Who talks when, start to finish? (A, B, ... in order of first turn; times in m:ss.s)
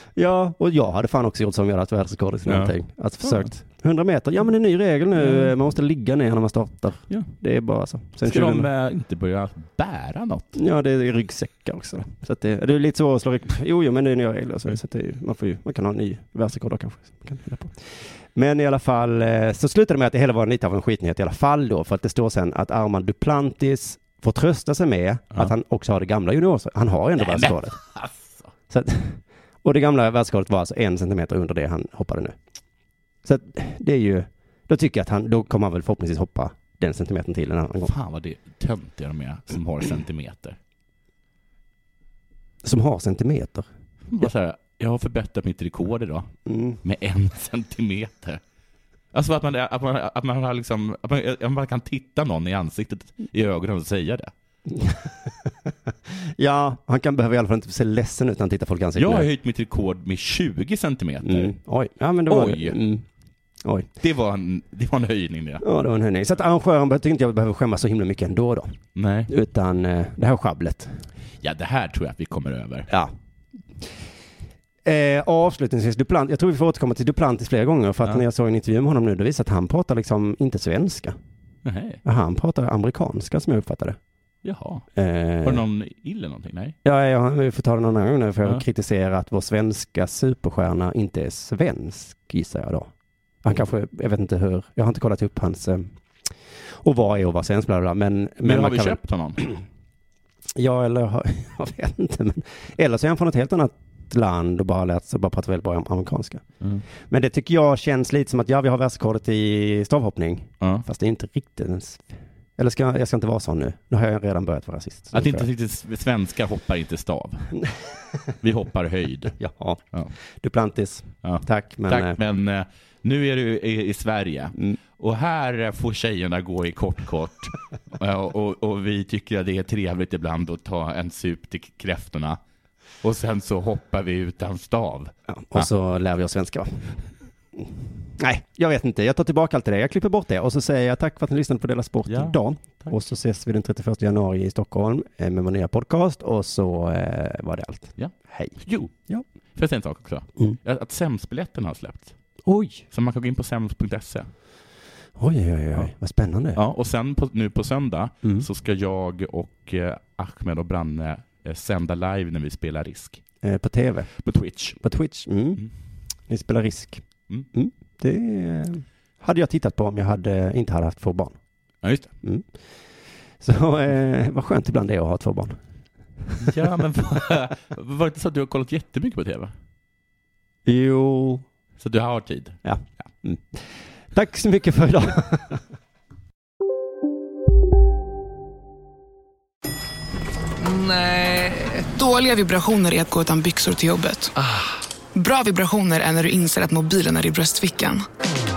0:00.2-0:08.7 A
0:02.5-0:03.5 B
0:05.2-0:05.5 B
0:08.2-0:10.6 B
0:10.6-0:27.8 A
0:27.2-0:28.5 B
0:28.7-0:32.4 A
0:33.2-0:37.9 A
0:37.8-0:40.6 B
0:42.6-0:43.7 A
0:44.1-0:46.3 B
0:46.5-0:46.8 A
0:46.8-0:48.4 B
0:49.1-0:54.3 B
0:54.7-0:55.0 A
0:56.4-0:59.3 A
0:59.0-1:01.6 B
1:01.2-1:03.0 A
1:02.3-1:02.8 B
1:04.0-1:05.6 B
1:05.6-1:08.8 A
1:09.0-1:09.3 B
1:09.3-1:11.1 A
1:11.4-1:12.9 B
1:14.8-1:21.2 A
1:21.6-1:22.0 B
1:22.0-1:24.0 A
1:24.4-1:24.9 B
1:25.0-1:25.6 A
1:25.4-1:26.8 B
1:26.8-1:32.9 A
1:33.4-1:35.9 A
1:36.8-1:39.6 A
1:38.4-1:39.5 B
1:40.6-1:55.5 A
1:50.6-1:50.8 B
1:55.1-1:57.5 B
1:58.4-1:59.3 B
1:59.4-2:02.2 A
2:01.2-2:12.4 B
2:13.0-2:15.7 B
2:15.3-2:17.0 A
2:18.2-2:29.2 A
2:22.1-2:22.9 B
2:28.0-2:28.9 B
2:29.6-2:32.2 B
2:32.4-2:32.8 A
2:32.9-2:34.3 B
2:35.2-2:36.6 A
2:36.6-2:43.2 B
2:43.4-2:44.1 A
2:44.2-2:44.8 B
2:44.8-2:45.6 A
2:46.3-2:51.4 A
2:51.8-2:52.1 B
2:53.4-2:55.6 A
2:56.4-2:59.5 B
3:00.7-3:01.4 A
3:01.8-3:02.6 B
3:02.6-3:05.6 A
3:11.9-3:14.3 C
3:15.2-3:18.0 C